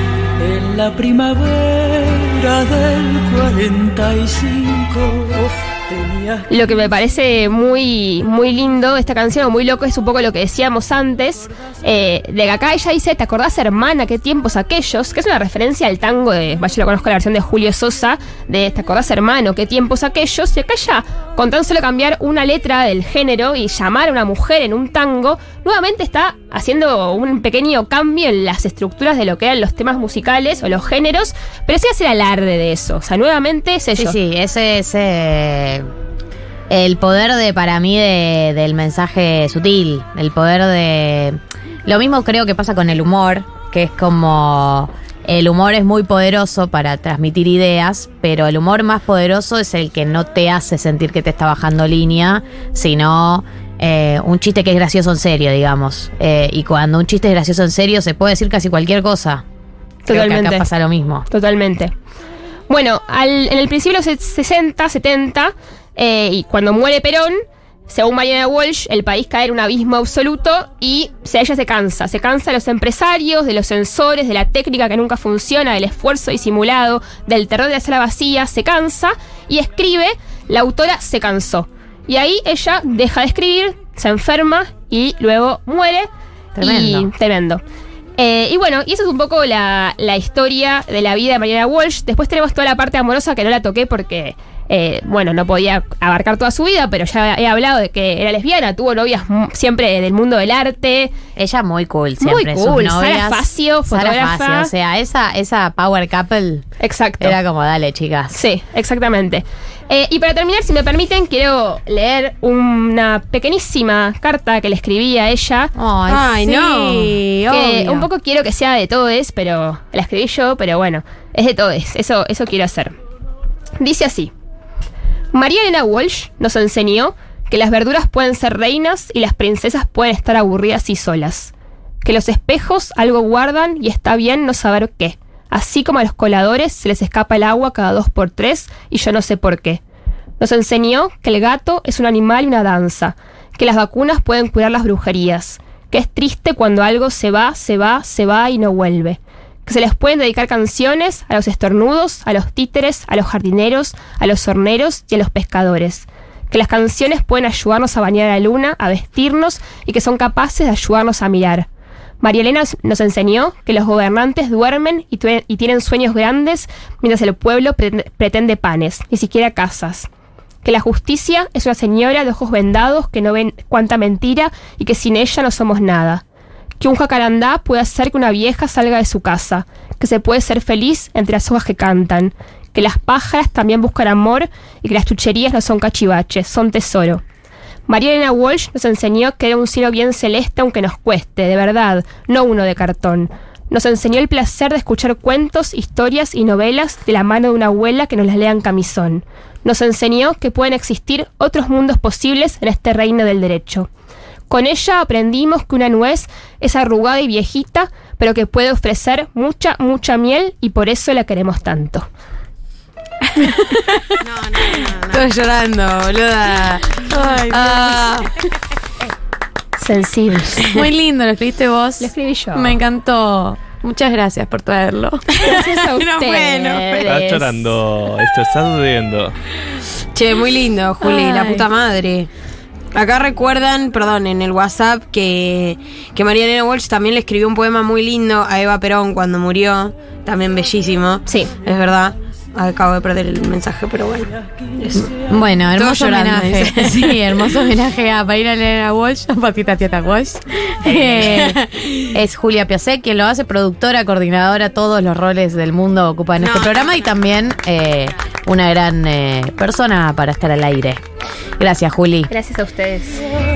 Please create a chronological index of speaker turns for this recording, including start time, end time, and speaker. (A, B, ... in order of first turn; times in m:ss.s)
0:00.4-0:06.4 A
0:06.5-0:34.2 B
0:33.9-0:35.9 C
0:36.7-0:59.4 C
1:00.0-1:00.7 B
1:00.1-1:01.3 C
1:01.3-1:01.9 B
1:02.7-1:27.6 B
1:26.6-1:27.1 C
1:28.2-1:41.1 B
1:41.4-1:46.7 C
1:42.2-1:44.7 B
1:46.8-1:47.4 B
1:47.2-1:48.4 C
1:48.3-1:55.7 B
1:55.8-1:58.1 C
1:56.1-1:57.2 D
1:57.5-2:02.9 B
2:03.8-2:04.3 B
2:05.3-2:11.5 B
2:12.0-2:19.8 B
2:20.4-2:41.7 B
2:42.2-2:50.1 B
2:50.6-2:56.2 B
2:56.8-3:07.2 B
3:07.9-3:23.9 B
3:24.5-3:32.1 B
3:33.4-3:38.3 D
3:37.1-3:38.2 C
3:39.8-3:40.7 B
3:40.6-3:45.3 C
3:42.0-3:42.8 B
3:45.3-3:47.1 D
3:45.4-3:47.5 B
3:47.0-3:49.3 E
3:50.1-3:52.3 D
3:51.0-3:51.6 C
3:52.9-4:05.1 D
4:04.9-4:21.0 C
4:05.7-4:07.2 D
4:10.8-4:11.5 B
4:11.2-4:11.6 D
4:16.4-4:17.2 D
4:21.6-4:22.3 C
4:22.3-4:23.2 B